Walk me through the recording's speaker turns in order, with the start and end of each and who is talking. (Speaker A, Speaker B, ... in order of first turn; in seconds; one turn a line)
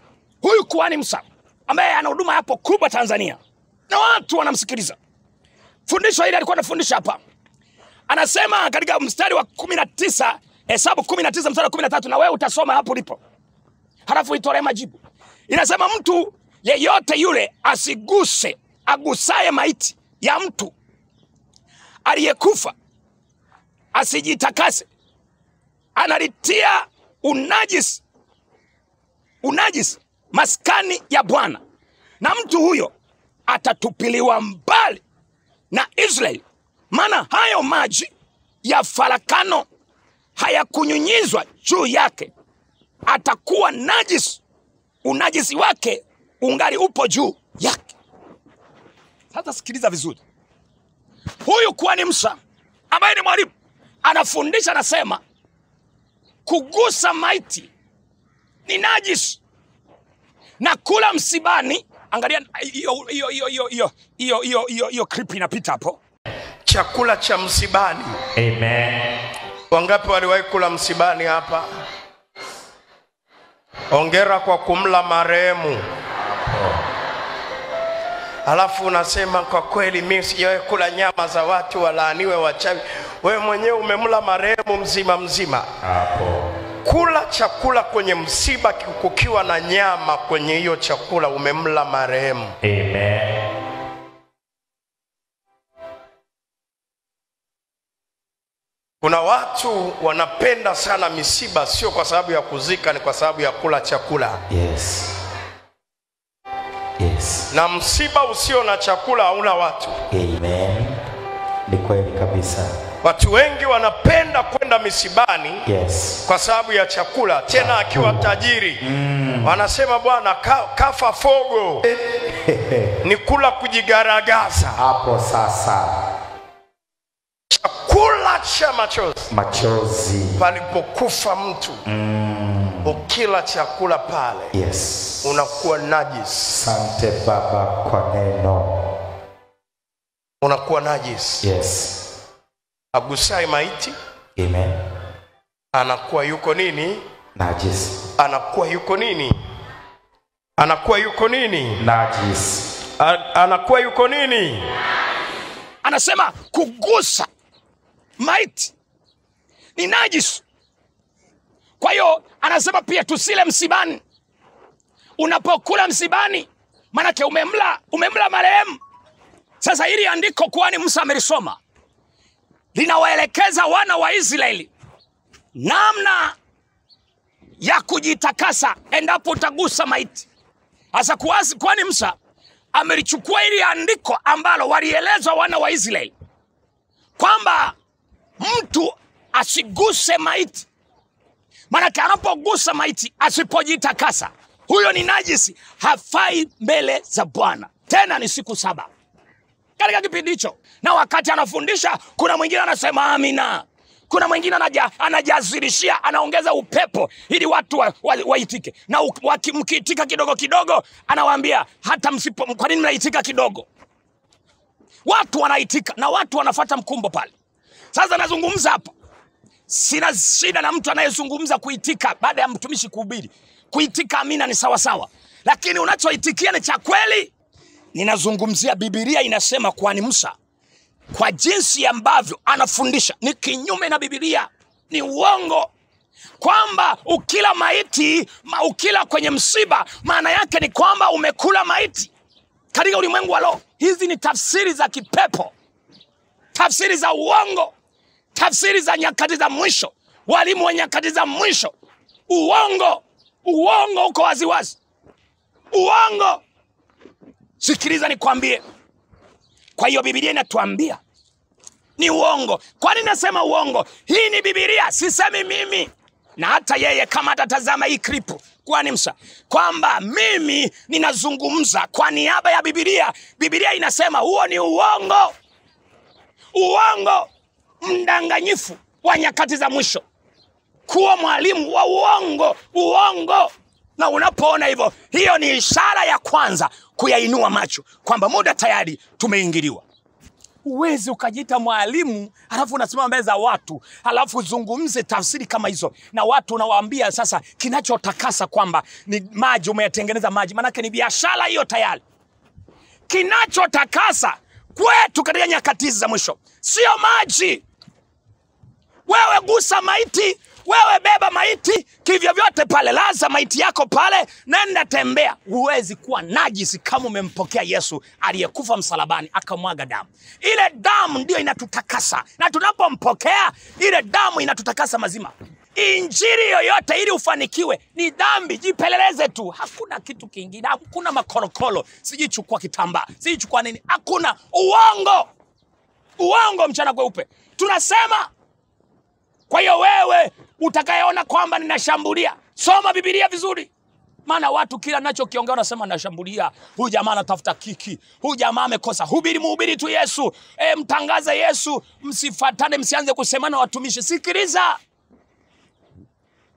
Speaker A: 0.4-5.0
Speaker A: 5.9-7.2
Speaker A: 8.1-13.2
Speaker A: 14.1-20.7
Speaker A: 22.1-22.7
Speaker A: 23.9-24.9
Speaker A: 25.9-28.0
Speaker A: 29.4-31.6
Speaker A: 32.2-32.9
Speaker A: 33.5-35.0
Speaker A: 35.7-38.1
Speaker A: 38.6-39.7
Speaker A: 40.4-42.3
Speaker A: 43.1-44.4
Speaker A: 45.0-47.9
Speaker A: 49.3-50.2
Speaker A: 51.5-52.4
Speaker A: 52.9-53.5
Speaker A: 54.0-55.2
Speaker A: 56.5-57.7
Speaker A: 58.7-59.4
Speaker A: 60.6-66.0
Speaker B: 66.7-68.2
Speaker C: 68.4-69.1
Speaker B: 69.7-71.7
Speaker B: 73.9-75.8
Speaker C: 76.4-76.8
Speaker B: 78.5-85.7
Speaker C: 85.8-86.5
Speaker B: 86.8-92.5
Speaker C: 92.6-93.4
Speaker B: 99.0-104.4
Speaker C: 104.5-105.2
Speaker C: 107.0-107.5
Speaker B: 107.5-110.0
Speaker C: 110.1-111.0
Speaker C: 111.7-112.8
Speaker B: 113.0-115.6
Speaker C: 115.7-116.3
Speaker B: 116.3-118.8
Speaker C: 117.5-119.6
Speaker B: 119.4-121.9
Speaker C: 122.3-122.9
Speaker B: 123.0-124.8
Speaker C: 124.8-126.0
Speaker B: 127.5-129.3
Speaker C: 129.3-130.4
Speaker B: 130.4-131.8
Speaker C: 131.9-133.0
Speaker B: 132.8-134.5
Speaker C: 134.5-135.4
Speaker B: 135.2-136.5
Speaker C: 136.5-138.9
Speaker B: 140.4-141.4
Speaker C: 141.4-142.1
Speaker B: 142.9-143.9
Speaker C: 144.4-144.8
Speaker B: 145.7-147.0
Speaker C: 147.4-148.0
Speaker B: 148.2-149.4
Speaker B: 150.6-151.8
Speaker C: 151.8-152.7
Speaker B: 153.0-154.7
Speaker A: 155.8-157.3
Speaker A: 158.2-158.7
Speaker A: 159.8-160.4
Speaker A: 161.8-164.0
Speaker A: 165.2-168.8
Speaker A: 169.6-171.6
Speaker A: 172.7-174.7
Speaker A: 175.6-176.3
Speaker A: 177.6-180.3
Speaker A: 180.9-182.2
Speaker A: 182.7-186.1
Speaker A: 187.2-187.8
Speaker A: 188.4-190.7
Speaker A: 191.7-198.9
Speaker A: 199.8-213.7
Speaker A: 215.1-217.3
Speaker A: 217.9-218.9
Speaker A: 219.7-227.3
Speaker A: 227.9-230.3
Speaker A: 231.1-235.7
Speaker A: 236.4-242.1
Speaker A: 242.7-245.5
Speaker A: 246.6-247.7
Speaker A: 248.3-251.7
Speaker A: 252.3-254.8
Speaker A: 255.7-256.4
Speaker A: 257.6-258.6
Speaker A: 259.8-261.0
Speaker A: 262.0-275.4
Speaker A: 276.5-277.3
Speaker A: 277.8-280.0
Speaker A: 280.9-289.9
Speaker A: 290.6-302.0
Speaker A: 303.1-307.6
Speaker A: 309.1-335.3
Speaker A: 336.2-338.3
Speaker A: 339.5-343.7
Speaker A: 344.3-354.8